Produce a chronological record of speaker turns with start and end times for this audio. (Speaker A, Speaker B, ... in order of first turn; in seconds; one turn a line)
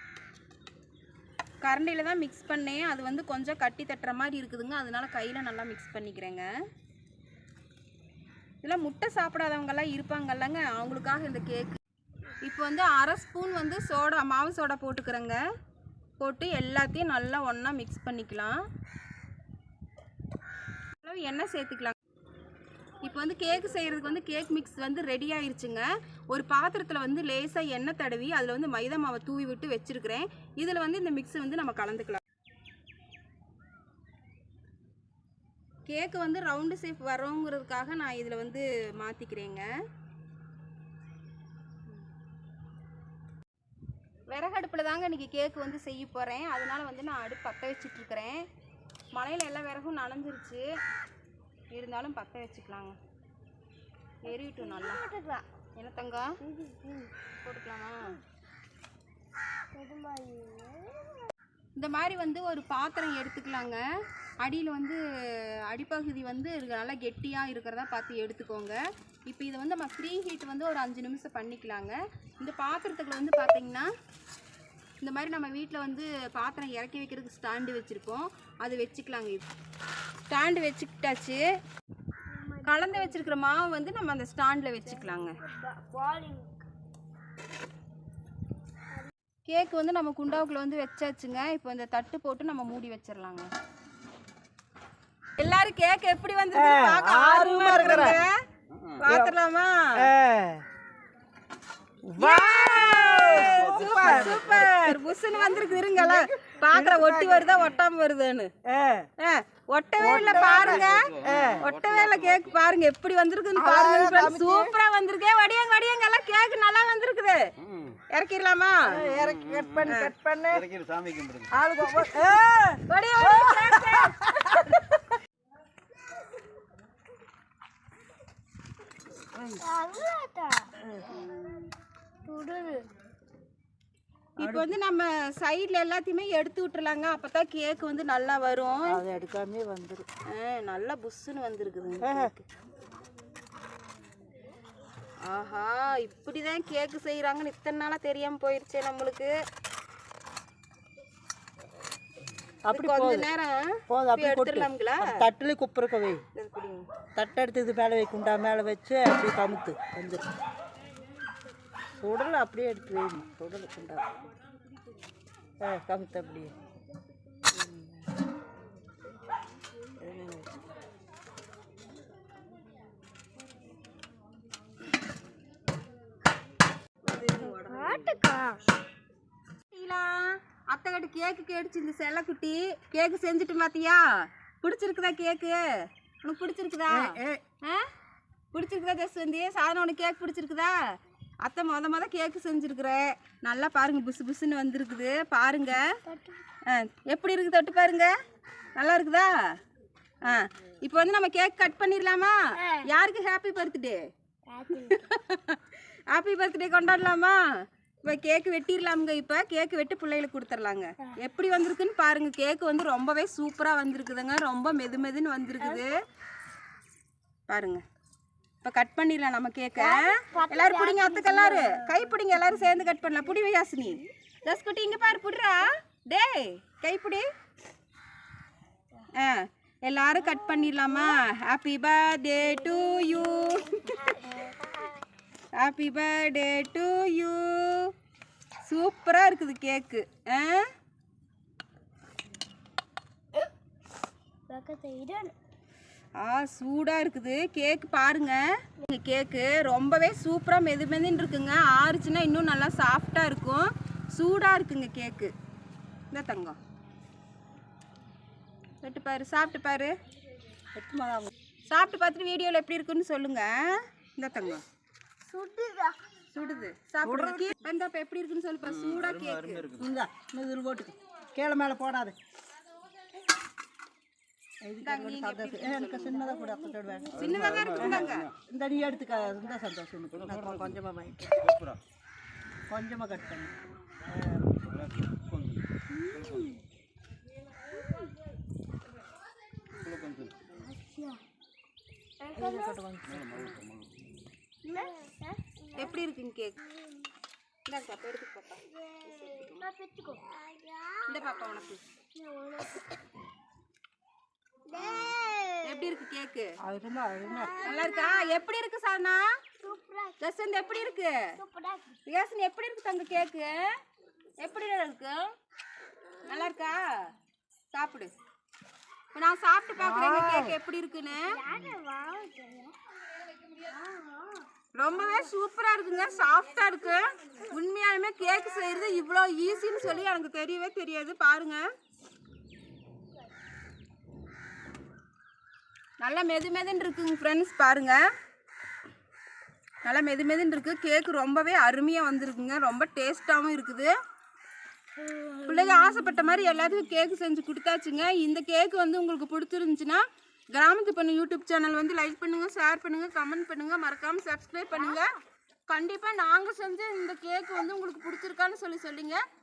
Speaker A: 1.6-6.5
Speaker A: 8.6-11.8
Speaker A: 12.4-15.4
Speaker A: 16.2-18.6
Speaker A: 21.0-21.9
Speaker A: 23.0-32.2
Speaker A: 35.9-39.7
Speaker A: 44.3-48.4
Speaker A: 49.1-50.6
Speaker A: 51.7-53.0
Speaker A: 54.2-55.0
Speaker B: 54.3-55.5
Speaker A: 55.8-56.3
Speaker B: 56.4-57.1
Speaker A: 57.4-58.1
Speaker B: 59.7-61.3
Speaker A: 61.8-63.8
Speaker A: 64.4-73.9
Speaker A: 75.0-79.5
Speaker A: 80.3-81.4
Speaker B: 82.3-83.3
Speaker A: 82.6-85.4
Speaker B: 85.4-86.7
Speaker A: 89.5-93.5
Speaker A: 95.4-98.4
Speaker C: 96.5-98.2
Speaker A: 99.0-100.1
Speaker C: 99.1-99.3
Speaker C: 100.0-100.6
Speaker C: 102.0-107.6
Speaker A: 102.2-108.5
Speaker C: 108.7-109.1
Speaker A: 109.2-117.5
Speaker C: 110.0-111.7
Speaker D: 111.1-112.2
Speaker C: 113.5-114.7
Speaker A: 118.1-119.0
Speaker C: 118.9-120.7
Speaker A: 119.8-120.1
Speaker D: 120.6-121.5
Speaker C: 121.5-125.0
Speaker A: 122.9-124.3
Speaker C: 129.3-129.6
Speaker B: 129.6-131.7
Speaker C: 130.8-131.3
Speaker B: 132.2-132.8
Speaker A: 134.4-139.0
Speaker C: 134.4-134.7
Speaker C: 138.9-140.1
Speaker A: 140.3-142.4
Speaker C: 142.0-142.3
Speaker A: 145.2-149.3
Speaker C: 152.7-153.3
Speaker A: 152.7-155.2
Speaker C: 153.9-156.2
Speaker A: 156.3-156.9
Speaker C: 157.1-160.2
Speaker C: 162.0-164.1
Speaker C: 165.6-166.5
Speaker C: 167.5-168.1
Speaker C: 170.0-170.6
Speaker A: 177.0-178.1
Speaker B: 177.4-178.6
Speaker A: 179.7-185.6
Speaker A: 186.2-187.8
Speaker C: 186.9-187.4
Speaker A: 188.5-190.8
Speaker A: 191.4-195.9
Speaker B: 196.1-196.4
Speaker A: 196.7-198.1
Speaker A: 198.8-199.3
Speaker A: 200.2-204.0
Speaker B: 202.6-202.9
Speaker B: 204.5-205.1
Speaker A: 204.7-207.4
Speaker A: 208.0-215.9
Speaker A: 217.5-217.8
Speaker A: 218.6-227.2
Speaker B: 219.8-221.9
Speaker A: 229.2-234.2
Speaker B: 230.2-231.1
Speaker B: 232.6-235.0
Speaker A: 235.6-237.9
Speaker A: 238.7-240.7
Speaker B: 244.5-245.3
Speaker A: 246.2-255.3
Speaker A: 256.1-256.6
Speaker A: 258.8-259.9
Speaker C: 260.7-261.3
Speaker A: 261.7-264.6
Speaker B: 265.3-266.0
Speaker A: 266.3-269.7
Speaker C: 267.0-267.5
Speaker D: 268.9-269.8
Speaker C: 269.8-272.1
Speaker C: 274.6-281.5
Speaker A: 274.8-276.2
Speaker B: 275.9-277.4
Speaker A: 277.1-278.3
Speaker B: 278.9-279.4
Speaker D: 280.3-280.6
Speaker D: 281.5-281.8
Speaker C: 282.7-284.5
Speaker D: 284.7-285.6
Speaker B: 285.9-286.6
Speaker D: 286.1-286.5
Speaker B: 287.7-288.1
Speaker D: 289.8-290.3
Speaker B: 290.5-291.2
Speaker B: 292.2-292.8
Speaker C: 292.3-293.6
Speaker D: 293.1-293.9
Speaker B: 294.6-295.9
Speaker A: 295.8-296.6
Speaker A: 297.7-299.6
Speaker B: 298.9-301.3
Speaker A: 301.1-301.8
Speaker B: 302.1-302.9
Speaker B: 304.7-305.9
Speaker A: 305.6-306.5
Speaker C: 306.6-307.6
Speaker B: 307.3-308.2
Speaker A: 307.6-309.2
Speaker B: 309.6-310.2
Speaker A: 310.2-311.1
Speaker B: 311.4-312.0
Speaker A: 312.1-313.6
Speaker A: 314.4-315.3
Speaker A: 316.2-316.9
Speaker A: 317.7-318.1
Speaker A: 319.1-321.4
Speaker C: 319.8-320.6
Speaker B: 321.1-322.8
Speaker B: 323.5-324.4
Speaker A: 324.7-331.6
Speaker A: 336.0-338.0
Speaker A: 339.8-343.9
Speaker B: 345.0-346.3
Speaker A: 345.4-355.1
Speaker A: 355.7-359.2